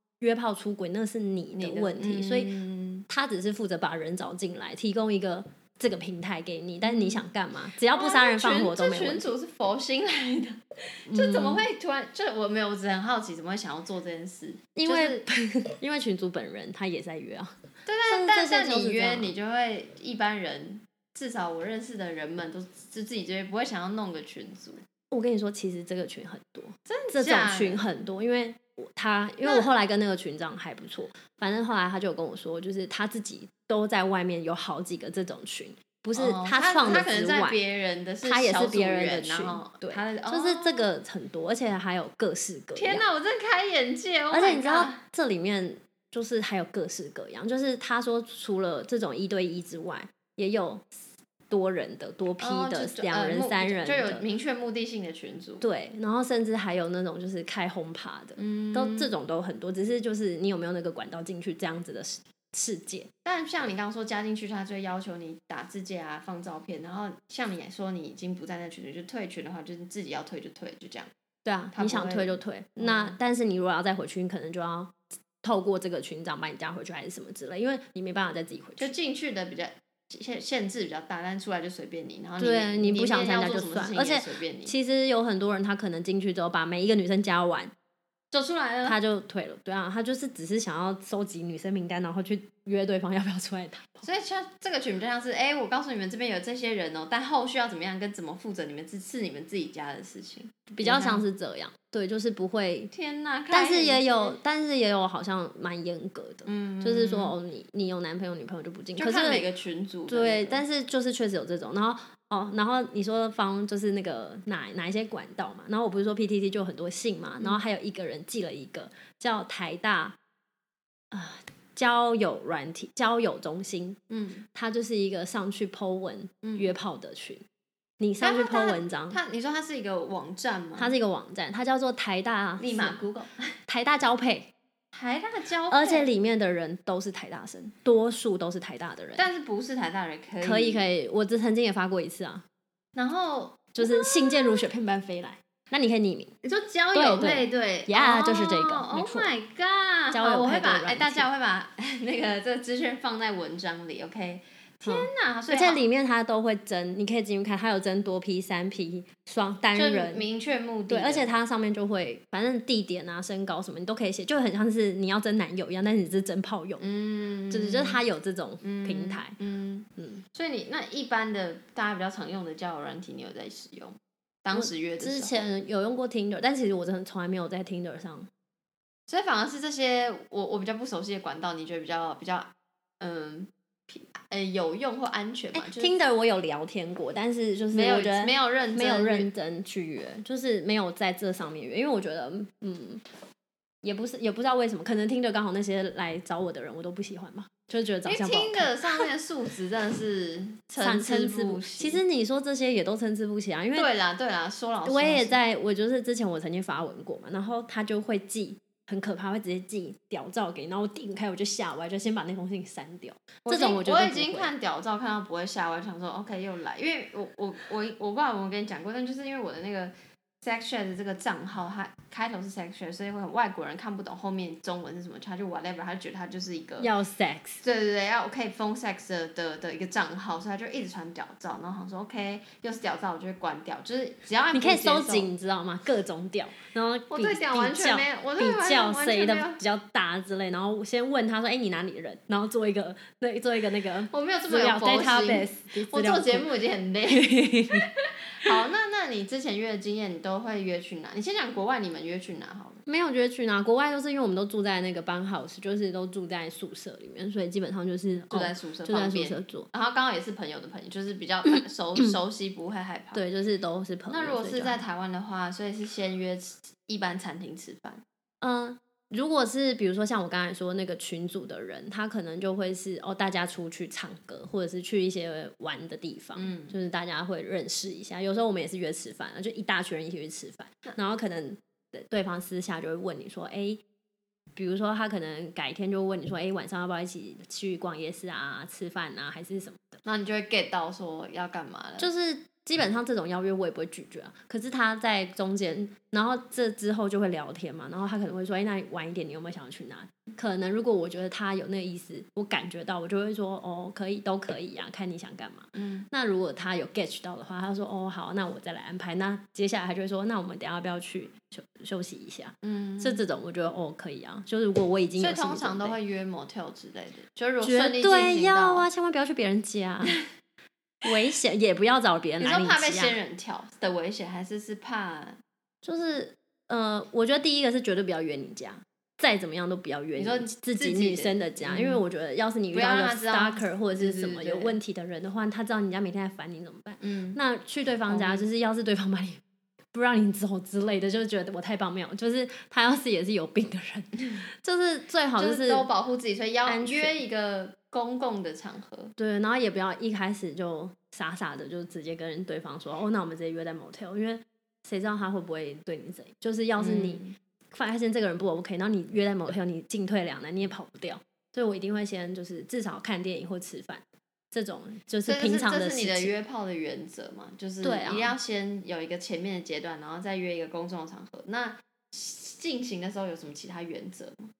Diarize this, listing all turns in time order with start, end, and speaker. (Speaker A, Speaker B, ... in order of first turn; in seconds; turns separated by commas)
Speaker A: 0.2-2.5, Speaker B: 1.5-3.0, Speaker A: 3.1-9.3, Speaker B: 6.8-7.2, Speaker B: 7.9-15.3, Speaker A: 11.1-11.6, Speaker A: 14.8-19.3, Speaker B: 17.9-24.8, Speaker A: 25.1-37.6, Speaker B: 26.9-27.9, Speaker B: 29.4-29.7, Speaker B: 36.1-40.9, Speaker A: 38.2-43.0, Speaker B: 42.8-45.0, Speaker A: 44.3-54.2, Speaker B: 52.4-55.6, Speaker A: 55.6-63.1, Speaker B: 58.4-59.1, Speaker B: 63.2-71.1, Speaker A: 71.4-78.9, Speaker B: 71.7-73.2, Speaker B: 78.8-84.7, Speaker A: 82.4-87.7, Speaker B: 88.3-89.0, Speaker A: 88.8-94.0, Speaker B: 94.0-101.2, Speaker A: 100.7-102.9, Speaker B: 102.9-104.4, Speaker A: 103.5-109.4, Speaker B: 106.4-107.3, Speaker B: 109.0-110.6, Speaker A: 110.1-120.2, Speaker A: 121.1-124.0, Speaker B: 124.1-124.5, Speaker A: 124.5-127.4, Speaker B: 126.4-126.7, Speaker A: 128.0-129.2, Speaker B: 128.2-130.9, Speaker A: 130.8-133.0, Speaker B: 132.6-133.5, Speaker A: 133.7-134.5, Speaker B: 134.9-136.1, Speaker A: 135.7-139.2, Speaker B: 139.2-140.9, Speaker A: 140.4-142.4, Speaker B: 142.9-144.6, Speaker A: 143.7-146.3, Speaker B: 146.4-155.8, Speaker A: 146.9-149.3, Speaker A: 150.1-151.3, Speaker A: 154.8-160.2, Speaker B: 159.7-161.3, Speaker A: 160.9-166.8, Speaker B: 166.8-168.0, Speaker A: 167.5-169.3, Speaker B: 168.6-175.4, Speaker A: 170.0-170.2, Speaker A: 174.5-178.3, Speaker B: 179.1-185.9, Speaker A: 185.5-193.0, Speaker B: 187.7-189.3, Speaker A: 193.8-199.1, Speaker B: 198.0-202.0, Speaker A: 200.8-203.9, Speaker B: 203.7-205.4, Speaker A: 204.8-214.5, Speaker B: 213.4-226.9, Speaker A: 226.8-227.6, Speaker B: 227.6-235.3, Speaker A: 234.5-246.5, Speaker B: 237.1-239.6, Speaker B: 244.1-247.9, Speaker A: 247.1-247.9, Speaker B: 248.4-252.8, Speaker A: 252.8-259.7, Speaker B: 258.3-263.2, Speaker A: 263.1-264.8, Speaker B: 264.1-268.0, Speaker A: 268.4-283.8, Speaker B: 276.4-276.8, Speaker A: 284.5-290.0, Speaker B: 290.0-292.1, Speaker A: 292.0-316.0, Speaker B: 305.7-306.1, Speaker B: 312.6-313.2, Speaker B: 315.2-318.9, Speaker A: 317.6-320.2, Speaker A: 321.0-323.2, Speaker B: 322.4-325.4, Speaker A: 325.8-339.4, Speaker B: 330.2-332.0, Speaker B: 332.7-334.8, Speaker B: 337.0-337.4, Speaker B: 338.1-338.4, Speaker A: 339.9-345.9, Speaker B: 345.4-349.1, Speaker A: 346.6-347.1, Speaker A: 349.2-366.3, Speaker B: 356.8-357.4, Speaker B: 365.2-374.5, Speaker A: 367.8-368.3